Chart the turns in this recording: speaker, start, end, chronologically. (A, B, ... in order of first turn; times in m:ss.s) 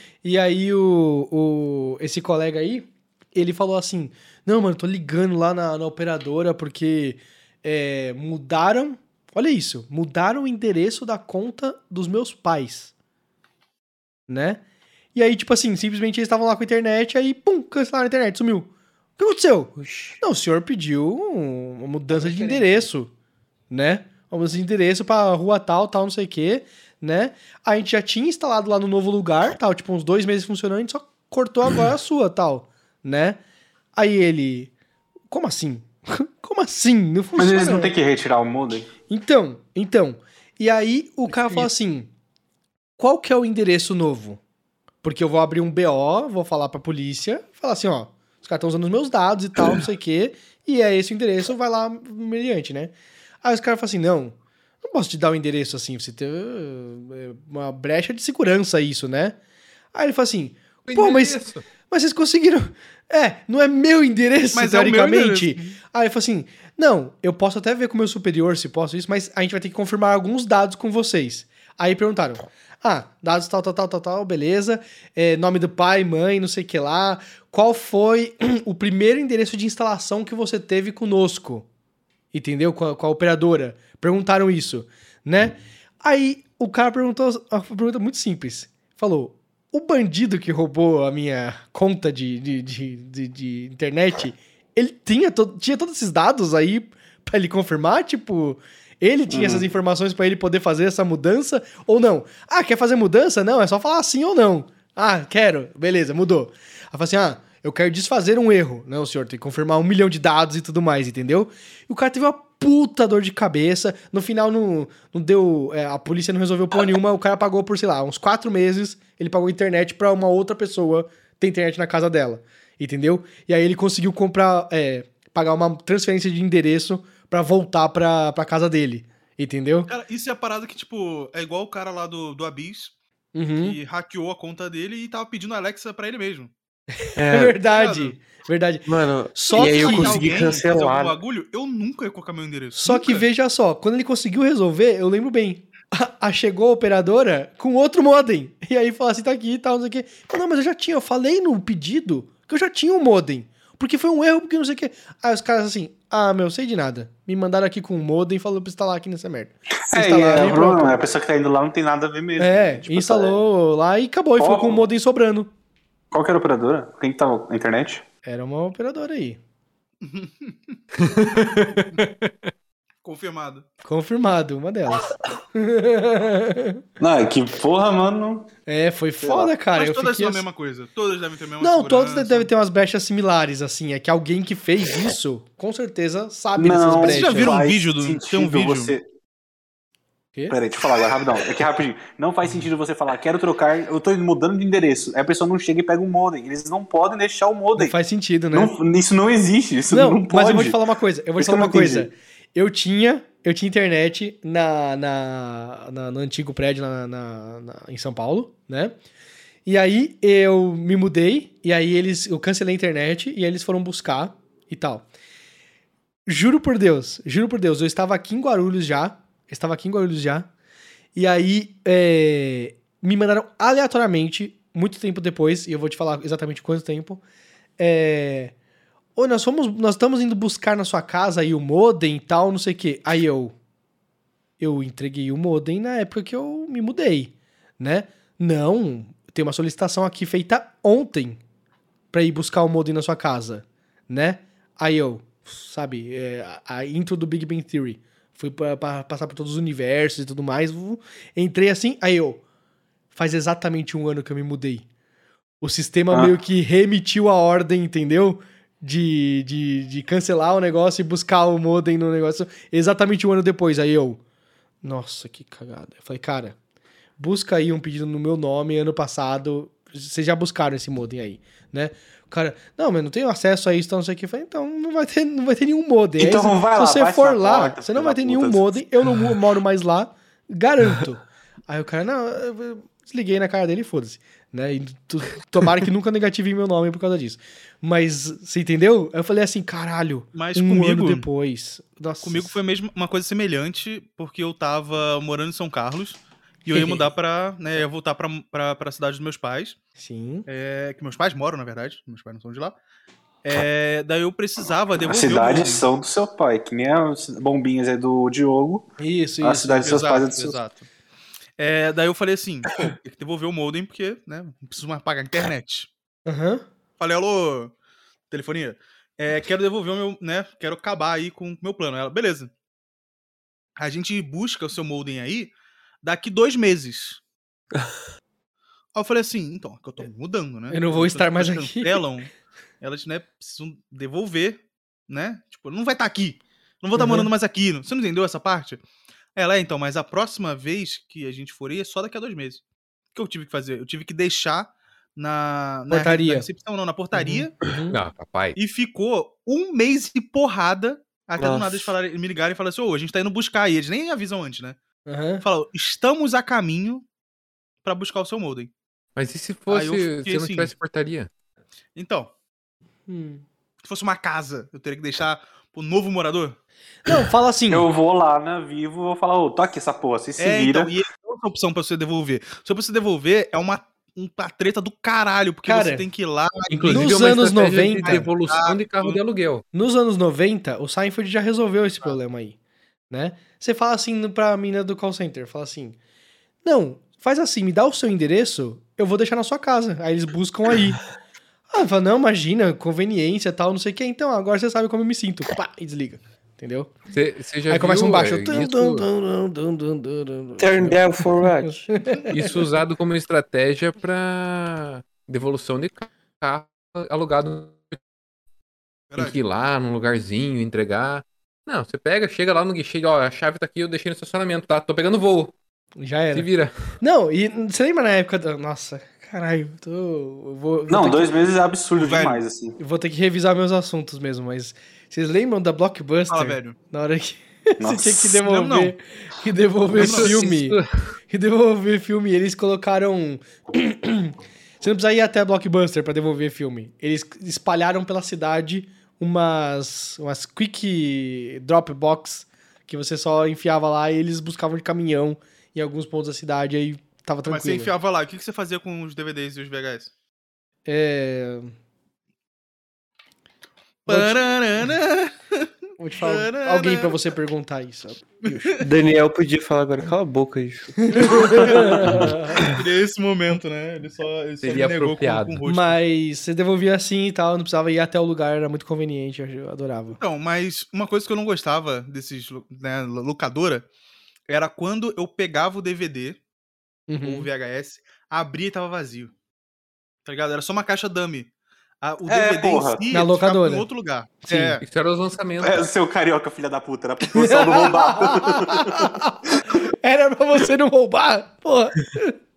0:00.2-0:12.9 A
0:14.3-0:14.6 A
0:15.1-0:23.1 A
0:19.8-0:20.2 B
0:22.3-0:22.6 B
0:23.7-0:33.4 A
0:34.0-0:34.7 A
0:35.3-0:37.9 A
0:37.4-0:38.9 C
0:39.1-0:42.1 A
0:43.0-0:44.4 A
0:45.0-0:59.4 A
0:59.9-1:21.7 A
1:00.8-1:01.6 D
1:04.5-1:05.8 E
1:22.3-2:09.9 A
1:39.3-1:39.7 C
2:09.9-2:12.9 E
2:13.3-2:13.8 A
2:13.6-2:16.5 E
2:17.0-2:20.4 A
2:17.2-2:17.6 B
2:17.7-2:18.2 E
2:18.9-2:21.2 B
2:19.5-2:23.2 E
2:22.7-2:41.0 A
2:39.8-2:43.4 C
2:42.4-2:45.5 A
2:44.4-2:44.8 C
2:46.1-2:48.0 C
2:48.2-2:49.4 A
2:50.0-2:52.0 E
2:51.0-2:52.3 D
2:53.0-2:53.7 E
2:53.8-2:56.8 A
2:57.0-2:58.5 C
2:58.7-3:00.5 A
2:59.2-2:59.5 C
2:59.7-3:02.5 E
3:01.6-3:07.6 A
3:06.6-3:09.0 C
3:07.0-3:08.9 E
3:10.5-3:17.9 C
3:17.8-3:18.7 A
3:18.5-3:20.8 C
3:19.9-3:29.0 A
3:21.4-3:22.1 C
3:29.7-3:35.0 A
3:36.2-3:40.5 A
3:41.2-3:47.2 A
3:47.8-3:48.5 A
3:49.2-3:53.5 A
3:54.6-4:01.4 A
4:02.1-4:12.4 A
4:13.1-4:14.8 A
4:15.6-4:24.2 A
4:24.8-4:26.6 A
4:27.2-4:52.6 A
4:36.2-4:38.7 C
4:50.3-4:51.2 E
4:52.2-4:59.8 E
4:56.7-4:57.1 A
5:00.0-5:00.5 A
5:00.5-5:02.8 E
5:03.4-5:05.8 E
5:05.0-5:10.6 C
5:09.0-5:10.0 A
5:09.8-5:10.9 E
5:11.6-5:15.9 E
5:16.2-5:16.6 A
5:17.0-5:17.7 E
5:18.3-5:22.5 E
5:23.8-5:27.2 E
5:29.0-5:38.8 E
5:30.7-5:32.0 A
5:37.0-5:37.3 A
5:39.4-5:42.6 E
5:43.1-5:47.5 E
5:45.9-5:46.5 A
5:47.1-5:48.0 A
5:47.9-5:48.6 D
5:48.6-5:54.8 E
5:51.4-5:52.0 B
5:55.0-5:55.4 A
5:55.4-5:57.0 E
5:57.8-5:58.7 E
5:59.2-6:01.3 D
5:59.7-6:00.7 E
6:02.0-6:02.3 E
6:03.1-6:03.4 A
6:03.8-6:06.6 E
6:07.0-6:07.9 A
6:07.7-6:11.0 C
6:10.4-6:17.3 E
6:15.6-6:16.1 A
6:16.7-6:19.6 D
6:16.8-6:18.3 A
6:18.0-6:19.2 E
6:19.7-6:22.6 A
6:23.1-6:26.0 A
6:26.6-6:31.0 A
6:31.7-6:36.9 A
6:37.1-6:39.0 D
6:37.7-6:42.6 A
6:40.6-6:41.9 B
6:42.3-6:48.0 D
6:49.1-6:49.4 E
6:49.2-6:55.5 D
6:56.0-7:01.4 A
6:56.3-6:56.7 D
7:00.9-7:02.8 C
7:02.0-7:02.4 E
7:02.8-7:10.8 A
7:06.3-7:06.8 E
7:07.8-7:08.4 C
7:08.4-7:08.9 E
7:09.9-7:10.4 E
7:09.9-7:10.9 D
7:11.3-7:27.9 A
7:27.5-7:30.1 E
7:30.9-7:31.7 A
7:34.0-7:37.2 E
7:34.1-7:34.4 A
7:36.0-7:38.8 A
7:38.5-7:38.8 E
7:38.8-7:42.8 B
7:41.0-7:42.7 A
7:41.3-7:46.0 E
7:44.6-7:45.6 D
7:45.6-7:50.2 A
7:50.2-7:53.9 E
7:54.5-7:56.4 E
7:57.1-7:57.5 A
7:57.2-7:59.3 E
8:00.2-8:01.5 E
8:02.0-8:04.8 E
8:02.2-8:03.1 C
8:03.1-8:03.9 A
8:04.5-8:04.8 A
8:04.8-8:05.9 D
8:05.6-8:09.8 C
8:07.2-8:12.4 A